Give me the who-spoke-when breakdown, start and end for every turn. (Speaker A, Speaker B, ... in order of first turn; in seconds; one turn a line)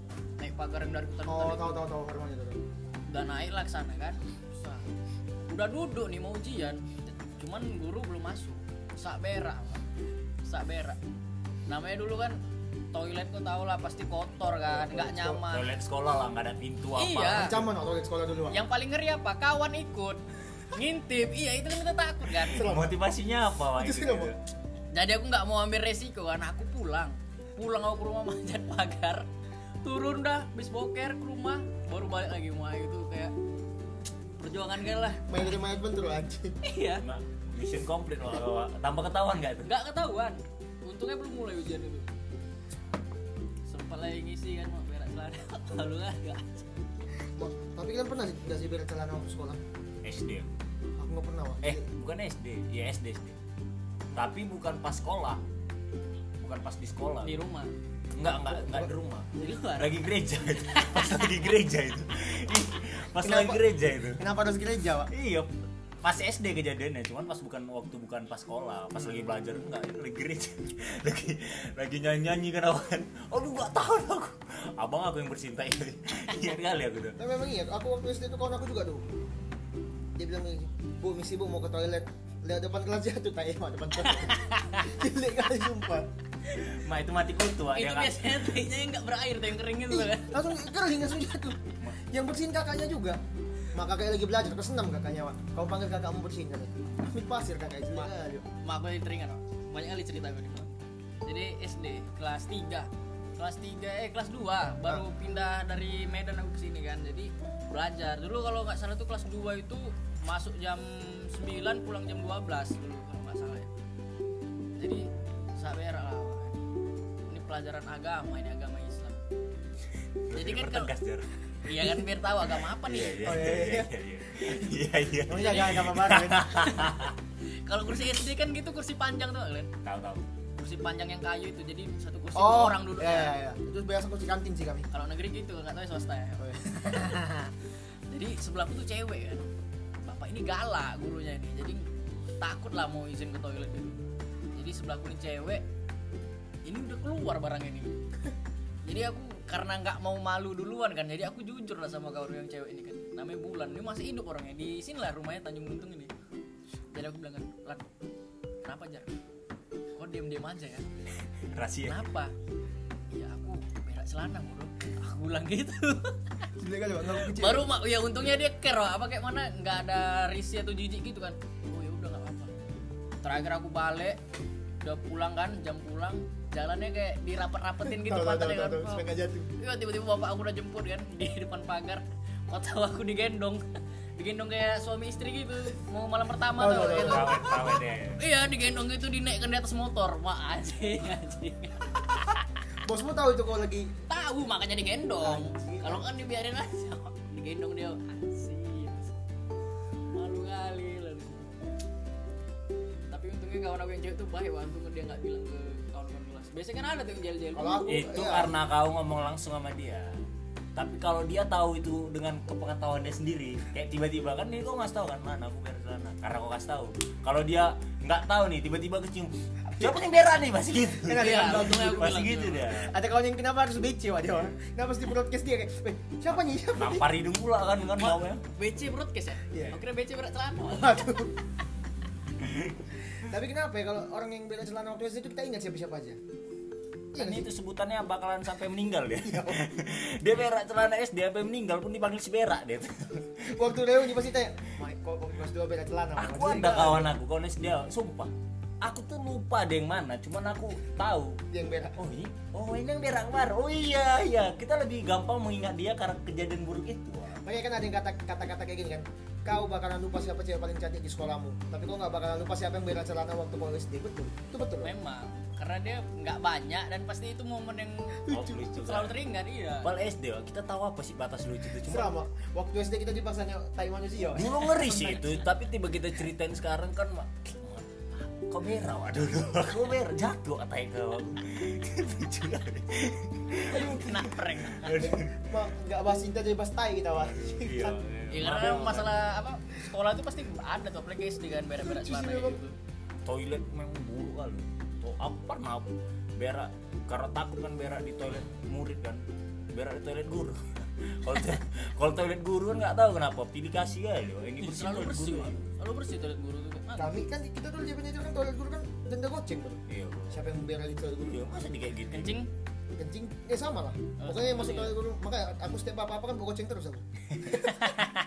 Speaker A: 0.4-1.8
Speaker B: 1.3-2.6
Speaker A: 3.1-4.9
Speaker A: 5.5-9.8
Speaker A: 10.4-11.0
Speaker A: 11.7-12.4
Speaker A: 12.9-15.7
Speaker B: 14.7-15.4
Speaker C: 15.5-17.7
Speaker A: 16.9-17.5
Speaker B: 17.4-18.6
Speaker A: 18.5-22.6
Speaker B: 22.5-23.0
Speaker C: 22.5-24.4
Speaker B: 23.8-24.3
Speaker A: 24.9-29.3
Speaker A: 29.8-33.3
Speaker A: 34.4-35.5
Speaker B: 35.3-36.5
Speaker A: 36.6-37.0
Speaker C: 37.0-39.7
Speaker A: 39.6-42.1
Speaker A: 43.6-46.8
Speaker B: 47.4-49.6
Speaker C: 50.0-50.5
Speaker B: 51.0-51.8
Speaker C: 51.6-53.4
Speaker C: 54.1-55.4
Speaker C: 56.4-57.4
Speaker A: 57.2-57.7
Speaker C: 58.1-64.2
Speaker B: 58.5-58.9
Speaker A: 59.4-59.9
Speaker A: 60.6-61.3
Speaker B: 63.2-65.1
Speaker C: 65.1-65.5
Speaker C: 66.0-77.2
Speaker B: 77.2-79.0
Speaker B: 80.1-86.1
Speaker A: 84.1-84.9
Speaker C: 86.5-88.6
Speaker A: 87.7-90.5
Speaker B: 89.9-93.2
Speaker B: 93.7-98.4
Speaker A: 97.9-113.7
Speaker A: 114.8-116.6
Speaker A: 117.3-119.2
Speaker C: 120.3-121.4
Speaker A: 120.3-120.9
Speaker A: 121.6-123.4
Speaker C: 122.8-127.1
Speaker B: 123.2-123.9
Speaker B: 125.2-126.5
Speaker A: 126.5-129.7
Speaker C: 129.8-130.3
Speaker A: 130.6-133.4
Speaker B: 132.3-134.8
Speaker A: 134.9-137.5
Speaker A: 138.1-139.5
Speaker A: 140.0-141.8
Speaker A: 142.4-144.0
Speaker A: 144.5-145.6
Speaker A: 146.6-147.9
Speaker A: 148.8-156.1
Speaker A: 156.9-157.9
Speaker A: 158.6-159.1
Speaker A: 159.9-160.9
Speaker C: 161.5-162.0
Speaker A: 161.8-162.3
Speaker A: 163.1-166.2
Speaker B: 166.6-167.7
Speaker A: 167.2-172.5
Speaker A: 173.2-174.2
Speaker A: 174.8-179.1
Speaker B: 177.8-179.5
Speaker A: 179.6-183.6
Speaker A: 184.2-192.3
Speaker B: 186.5-187.4
Speaker C: 186.9-188.2
Speaker B: 192.8-193.9
Speaker A: 194.1-199.1
Speaker B: 195.2-196.1
Speaker A: 200.1-201.7
Speaker A: 203.1-207.9
Speaker B: 207.5-208.5
Speaker C: 207.9-210.2
Speaker C: 210.8-222.9
Speaker B: 219.7-220.0
Speaker B: 221.0-222.2
Speaker A: 221.1-222.7
Speaker B: 222.7-227.1
Speaker C: 226.7-228.4
Speaker A: 228.0-231.4
Speaker B: 229.5-229.8
Speaker B: 230.7-231.3
Speaker C: 232.4-232.8
Speaker B: 233.2-236.2
Speaker B: 237.1-237.5
Speaker C: 237.2-243.7
Speaker B: 239.2-239.6
Speaker B: 243.5-247.1
Speaker C: 246.2-248.3
Speaker C: 248.8-251.4
Speaker B: 251.5-252.0
Speaker C: 252.0-257.4
Speaker B: 257.4-264.9
Speaker A: 264.8-269.9
Speaker B: 268.3-268.6
Speaker C: 268.3-269.2
Speaker C: 269.8-272.1
Speaker B: 271.8-275.4
Speaker C: 274.3-285.6
Speaker A: 283.6-285.0
Speaker B: 284.9-288.0
Speaker C: 287.2-289.2
Speaker A: 288.3-292.8
Speaker B: 291.8-292.6
Speaker C: 293.2-299.2
Speaker C: 299.7-305.7
Speaker A: 304.6-307.2
Speaker B: 307.0-311.6
Speaker C: 309.9-310.4
Speaker C: 311.2-312.4
Speaker A: 312.1-312.5
Speaker B: 312.9-317.8
Speaker A: 314.2-314.9
Speaker C: 317.3-318.0
Speaker A: 317.8-318.1